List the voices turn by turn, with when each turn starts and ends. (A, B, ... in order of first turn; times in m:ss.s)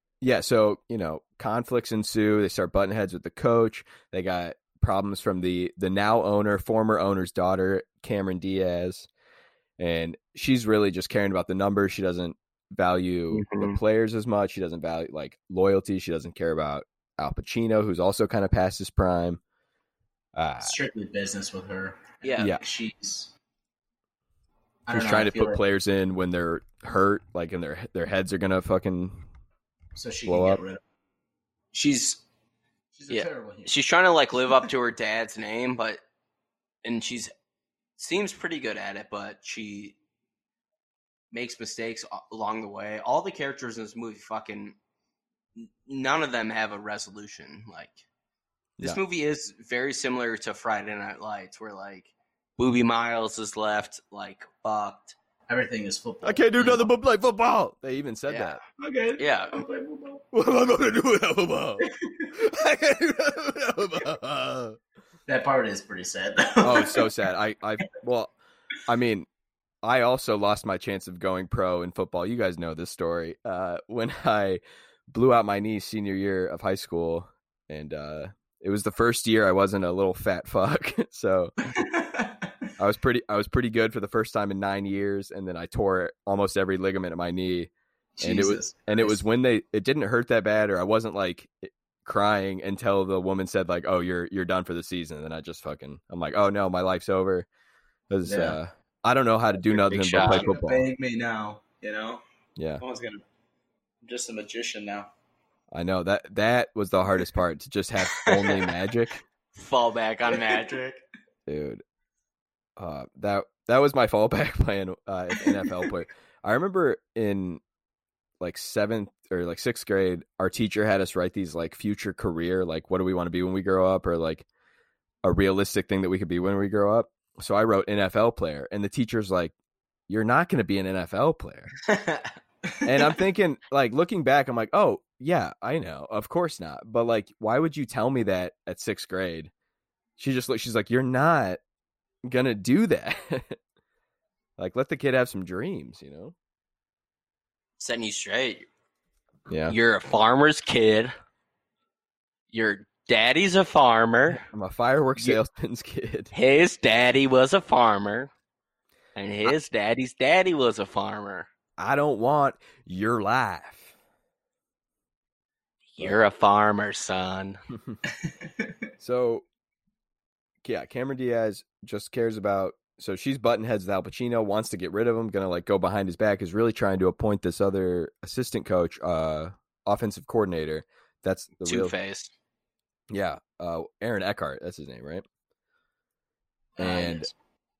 0:00.2-0:09.1 A
0:09.8-0:19.4 A
0:13.3-0:13.8 B
0:20.4-0:20.8 A
0:20.6-0:23.3 C
0:22.2-0:22.5 B
0:24.9-0:25.6 C
0:24.9-0:29.3 A
0:30.0-0:30.8 C
0:30.3-0:30.6 A
0:31.7-0:32.2 B
0:32.9-0:33.8 C
0:33.1-0:36.0 B
0:36.8-0:37.3 B
0:38.0-0:40.0 B
0:41.3-0:44.8 B
0:45.6-0:48.0 B
0:48.8-0:55.2 B
0:55.5-0:56.8 C
0:56.2-0:58.6 A
0:58.3-0:58.6 B
0:58.8-1:00.2 C
0:59.2-0:59.6 B
1:00.3-1:04.8 A
1:01.8-1:02.3 C
1:05.3-1:07.1 C
1:06.6-1:08.3 A
1:08.9-1:09.3 A
1:09.8-1:21.6 A
1:21.7-1:22.5 C
1:22.8-1:27.7 A
1:28.2-1:29.2 C
1:28.2-1:37.5 A
1:38.1-1:40.9 A
1:38.2-1:38.6 C
1:39.7-1:40.5 B
1:40.1-1:42.2 C
1:42.6-1:42.8 A
1:42.8-1:43.2 C
1:44.0-1:45.1 C
1:45.7-1:49.2 A
1:48.1-1:48.7 B
1:49.6-1:51.0 B
1:50.3-1:50.8 C
1:51.5-1:51.8 A
1:52.8-1:57.6 A
1:58.4-2:04.5 A
2:05.2-2:09.5 A
2:10.1-2:11.7 A
2:11.9-2:12.3 B
2:12.8-2:19.5 A
2:20.2-2:21.6 A
2:22.2-2:23.6 A
2:24.6-2:26.4 A
2:27.8-2:28.7 B
2:29.5-2:29.8 A
2:29.7-2:31.1 B
2:32.5-2:34.4 B
2:34.3-2:36.3 A
2:36.3-2:38.3 B
2:39.2-2:41.5 B
2:41.8-2:43.9 A
2:46.0-2:47.6 B
2:48.2-2:48.7 C
2:49.0-2:49.4 A
2:50.6-3:02.0 A
3:01.6-3:02.3 B
3:03.1-3:05.2 A
3:06.8-3:07.3 C
3:06.8-3:07.3 A